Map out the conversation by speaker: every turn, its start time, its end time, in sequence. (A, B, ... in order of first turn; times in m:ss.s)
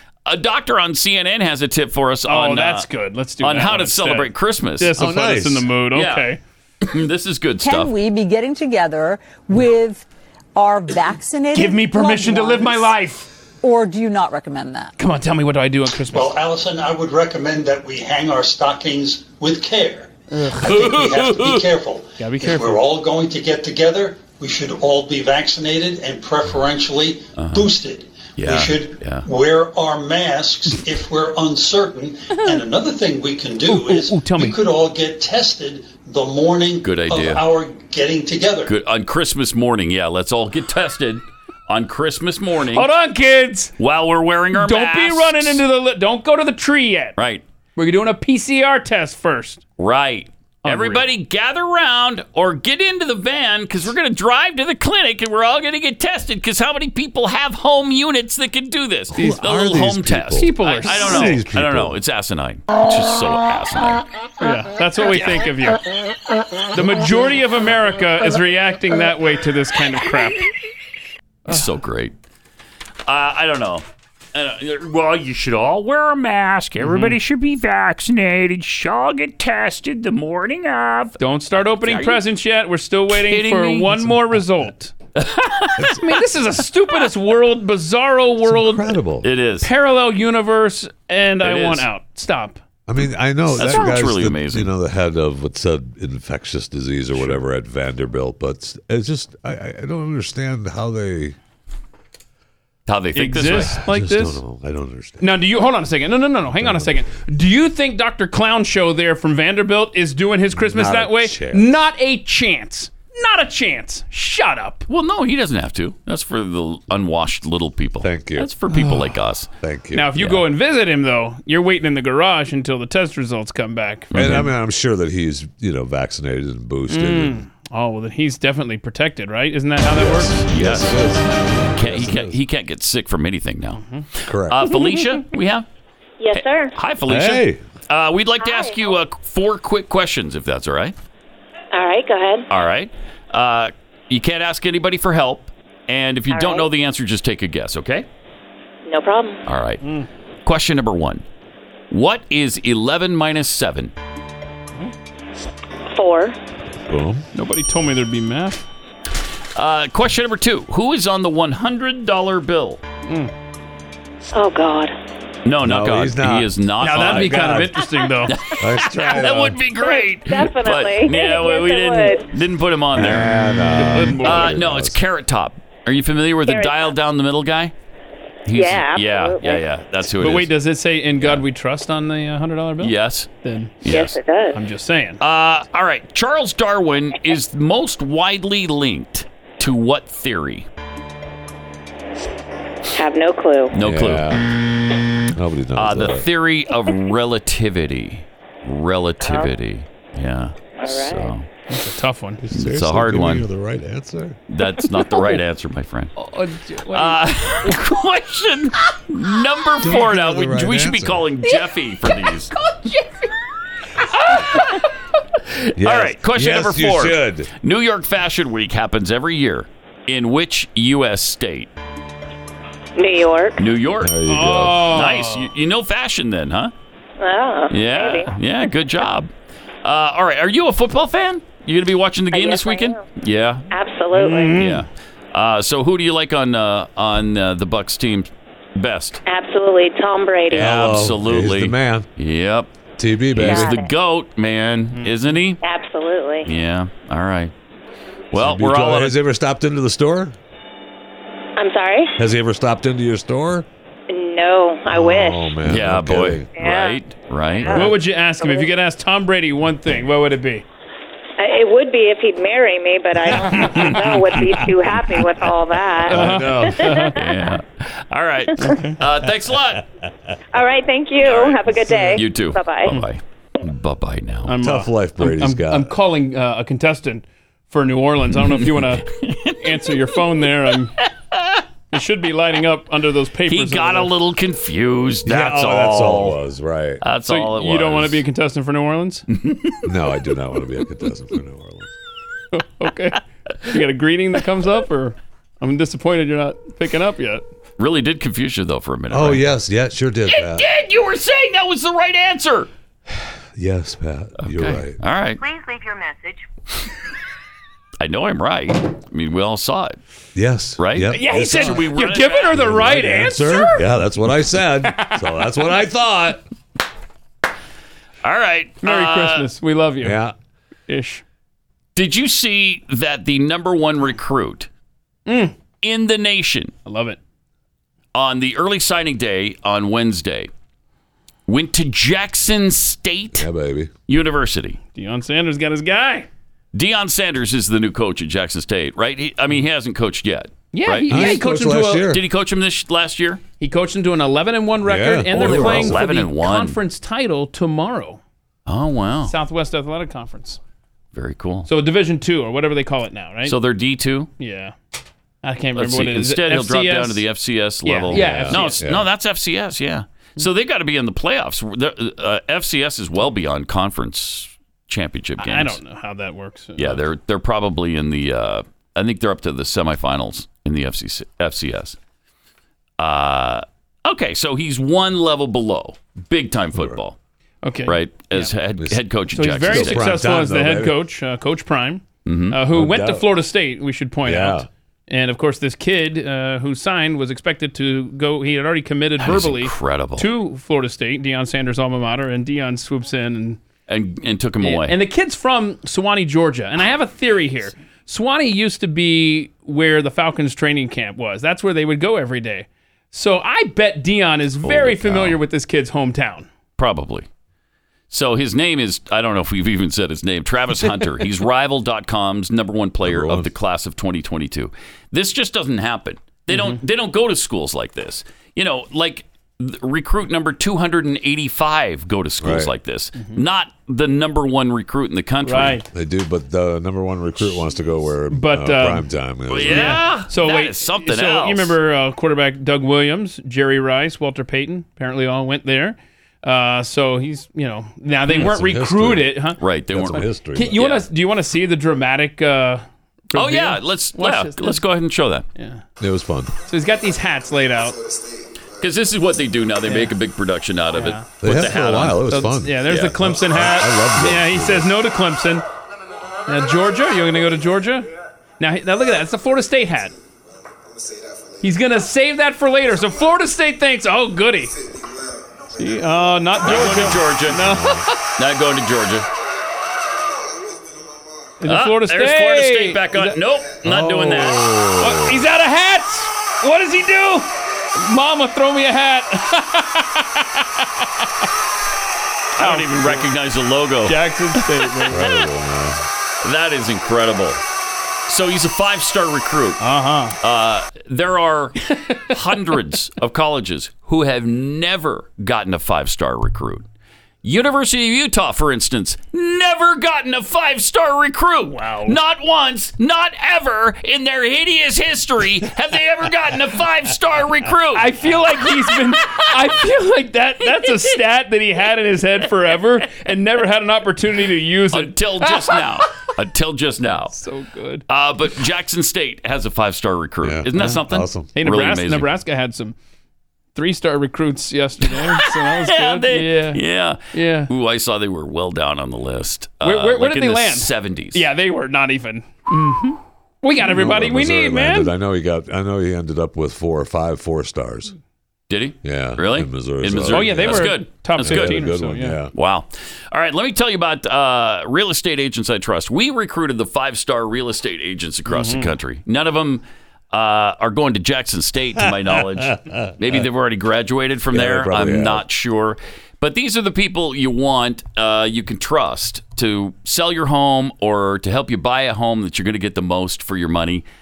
0:00.2-0:02.9 A
0:02.2-0:06.4 B
0:03.4-0:04.9 A
0:05.0-0:05.7 C
0:05.9-0:06.3 A
0:06.8-0:07.9 A
0:07.6-0:10.0 D
0:10.6-0:12.9 D
0:11.5-0:13.3 B
0:13.6-0:14.9 D
0:15.0-0:16.3 B
0:16.1-0:38.7 E
0:20.3-0:20.9 B
0:20.6-0:21.6 A
0:22.2-0:22.8 B
0:27.4-0:27.7 A
0:28.4-0:29.2 A
0:33.6-0:34.6 B
0:36.8-0:37.4 A
0:38.6-0:42.9 A
0:42.7-0:43.7 B
0:43.8-0:45.6 A
0:44.5-0:47.2 B
0:47.2-0:47.4 A
0:47.8-0:49.6 B
0:49.8-1:04.0 A
0:50.6-0:51.1 B
0:59.1-1:02.0 C
0:59.1-0:59.4 B
1:00.3-1:01.4 B
1:04.4-1:05.8 B
1:05.1-1:05.5 A
1:06.7-1:10.5 B
1:11.5-1:12.1 A
1:13.0-1:22.2 A
1:16.8-1:17.2 B
1:21.2-1:24.9 B
1:23.1-1:24.2 A
1:25.2-1:25.7 A
1:25.8-1:28.9 B
1:28.4-1:29.3 C
1:29.2-1:29.7 A
1:29.6-1:32.6 B
1:31.4-1:31.9 A
1:32.9-1:41.4 C
1:33.5-1:34.7 A
1:42.9-1:43.8 A
1:43.1-1:44.4 B
1:43.6-1:45.3 C
1:45.2-1:54.8 B
1:46.5-1:47.2 C
1:50.5-1:51.8 C
1:54.9-1:59.5 A
1:58.0-2:00.1 C
1:59.9-2:04.4 B
2:00.2-2:00.4 A
2:04.1-2:04.5 A
2:04.1-2:07.4 C
2:06.9-2:10.3 B
2:09.9-2:12.4 C
2:10.4-2:11.0 A
2:11.7-2:15.6 A
2:13.8-2:14.0 B
2:14.3-2:14.7 C
2:16.2-2:16.8 F
2:16.3-2:20.9 A
2:17.1-2:17.6 C
2:18.4-2:18.9 F
2:21.7-2:22.5 F
2:22.5-2:28.1 A
2:26.3-2:26.7 F
2:28.8-2:29.4 F
2:29.4-2:29.8 A
2:29.8-2:30.1 B
2:30.4-2:31.2 A
2:31.9-2:33.9 A
2:35.9-2:36.4 F
2:36.7-2:37.2 C
2:37.3-2:38.6 B
2:39.6-2:42.8 A
2:43.1-2:43.3 B
2:44.3-2:44.9 F
2:45.4-2:47.7 A
2:45.6-2:47.8 C
2:46.8-2:48.4 B
2:48.2-2:57.7 A
2:48.6-2:49.6 C
2:49.7-2:52.3 F
2:52.9-2:55.0 C
2:53.7-2:54.4 B
2:56.4-2:56.9 F
2:58.4-3:00.5 A
2:58.5-2:59.6 F
3:00.1-3:03.8 B
3:02.8-3:03.3 A
3:03.8-3:04.2 A
3:03.9-3:04.6 F
3:04.5-3:05.2 B
3:05.2-3:10.7 A
3:12.9-3:13.7 F
3:13.7-3:14.4 A
3:13.8-3:14.4 C
3:15.3-3:16.2 C
3:15.8-3:21.5 A
3:19.2-3:19.5 F
3:20.8-3:21.3 F
3:21.7-3:22.4 B
3:22.4-3:24.4 C
3:22.5-3:23.4 A
3:24.5-3:26.1 A
3:26.2-3:27.8 B
3:26.9-3:32.5 A
3:29.8-3:31.3 C
3:34.1-3:34.8 A
3:35.6-3:41.7 A
3:35.8-3:37.5 C
3:43.0-3:43.6 F
3:43.6-3:44.3 A
3:44.0-3:45.0 C
3:44.3-3:45.5 B
3:44.8-3:46.7 A
3:47.2-3:48.3 F
3:47.7-3:49.3 A
3:49.8-3:53.6 A
3:52.3-3:53.0 F
3:53.7-3:54.6 F
3:54.1-3:54.8 B
3:54.6-3:59.2 A
3:59.2-4:00.7 F
4:00.5-4:02.7 A
4:00.5-4:02.1 C
4:03.0-4:03.8 C
4:03.3-4:05.6 A
4:03.4-4:03.9 F
4:05.0-4:05.2 B
4:05.6-4:06.5 F
4:06.4-4:07.5 A
4:08.3-4:09.2 A
4:08.3-4:10.3 C
4:11.6-4:12.1 F
4:12.2-4:13.6 C
4:14.1-4:15.5 F
4:14.9-4:16.5 C
4:15.6-4:18.0 A
4:16.6-4:17.0 F
4:17.6-4:18.7 F
4:17.7-4:20.6 B
4:21.4-4:27.1 F
4:23.5-4:24.1 A
4:26.0-4:27.0 C
4:26.1-4:27.2 B
4:27.1-4:29.8 A
4:28.6-4:29.0 B
4:30.5-4:33.0 F
4:31.2-4:34.5 A
4:34.5-4:39.0 B
4:34.6-4:35.9 C
4:38.3-4:39.6 A
4:39.6-4:40.9 B
4:41.9-4:44.1 B
4:43.5-4:46.4 A
4:45.2-4:47.0 C
4:47.0-4:48.2 A
4:47.3-4:49.2 B
4:49.3-4:49.8 A
4:49.8-4:51.9 C
4:52.5-4:57.4 B
4:57.8-4:59.5 A
4:59.1-5:00.6 C
5:00.3-5:02.7 A
5:03.6-5:05.0 C
5:04.4-5:05.4 A
5:05.6-5:06.2 F
5:08.0-5:10.0 A
5:10.3-5:11.9 C
5:10.8-5:12.7 A
5:11.1-5:13.8 B
5:12.5-5:16.4 C
5:18.2-5:19.5 A
5:18.8-5:20.2 B
5:20.0-5:20.3 C
5:20.9-5:21.2 B
5:22.0-5:24.7 A
5:25.2-5:25.6 B
5:25.8-5:26.7 A
5:26.8-5:27.2 B
5:28.1-5:30.5 A
5:31.5-5:33.5 A
5:33.3-5:33.9 C
5:34.1-5:34.8 A
5:34.9-5:36.3 B
5:36.7-5:41.4 A
5:40.7-5:42.1 B
5:41.1-5:42.2 C
5:42.0-5:43.4 A
5:43.6-5:48.2 B
5:44.8-5:46.0 C
5:45.3-5:46.8 A
5:48.6-5:49.3 A
5:49.2-5:50.6 B
5:51.1-5:51.7 A
5:51.6-5:53.6 B
5:53.4-5:54.3 A
5:54.4-5:54.7 B
5:55.4-5:57.2 B
5:55.7-6:05.8 A
5:57.8-5:58.8 B
5:58.1-5:59.1 C
6:05.4-6:07.0 B
6:06.8-6:12.0 A
6:13.0-6:17.2 A
6:16.7-6:17.0 C
6:17.6-6:18.5 B
6:17.8-6:20.2 A
6:18.8-6:21.0 C
6:19.3-6:33.6 B
6:22.2-6:22.6 A
6:22.7-6:23.2 C
6:24.2-6:24.7 C
6:29.2-6:30.3 A
6:33.9-6:34.9 A
6:34.6-6:46.5 B
6:44.6-6:45.4 A
6:46.8-6:47.3 A
6:48.1-7:05.8 A
6:53.0-6:53.5 C
6:56.5-6:56.8 B
7:02.4-7:02.7 C
7:05.4-7:05.8 B
7:05.9-7:10.0 C
7:08.3-7:09.1 B
7:09.5-7:11.8 A
7:09.6-7:19.6 B
7:18.3-7:18.5 A
7:18.3-7:19.4 C
7:19.6-7:21.0 A
7:19.9-7:20.8 C
7:20.1-7:24.8 B
7:23.3-7:25.4 A
7:25.6-7:25.8 B
7:26.0-7:26.5 C
7:26.7-7:28.0 B
7:28.8-7:32.3 A
7:29.8-7:30.1 B
7:30.9-7:31.3 B
7:31.4-7:34.9 C
7:32.2-7:35.6 B
7:32.8-7:33.2 A
7:36.5-7:38.1 B
7:38.6-7:40.1 B
7:41.6-7:44.7 B
7:45.8-7:48.1 B
7:46.6-7:47.8 A
7:47.6-7:48.0 C
7:48.4-7:49.3 A
7:51.6-7:53.4 B
7:51.6-7:54.8 A
7:53.8-7:55.5 C
7:55.0-8:01.2 B
8:02.6-8:04.2 A
8:02.6-8:03.3 B
8:04.0-8:05.4 B
8:05.1-8:06.0 C
8:06.4-8:07.6 A
8:08.3-8:09.8 A
8:09.8-8:10.4 B
8:10.4-8:11.8 A
8:12.0-8:12.2 B
8:12.3-8:16.9 A
8:17.4-8:28.0 A
8:21.7-8:22.2 B
8:27.9-8:35.8 B
8:34.9-8:37.3 A
8:37.3-8:38.0 B
8:38.1-8:42.3 A
8:40.4-8:41.5 C
8:41.5-8:42.9 B
8:43.7-8:46.8 B
8:45.1-8:51.5 A
8:47.3-8:47.7 B
8:49.8-8:55.1 B
8:53.8-8:58.1 C
8:58.7-9:01.8 A
8:59.0-9:02.5 C
9:00.3-9:02.4 B
9:02.5-9:24.0 A
9:08.5-9:08.9 B
9:12.0-9:13.4 C
9:14.5-9:15.4 C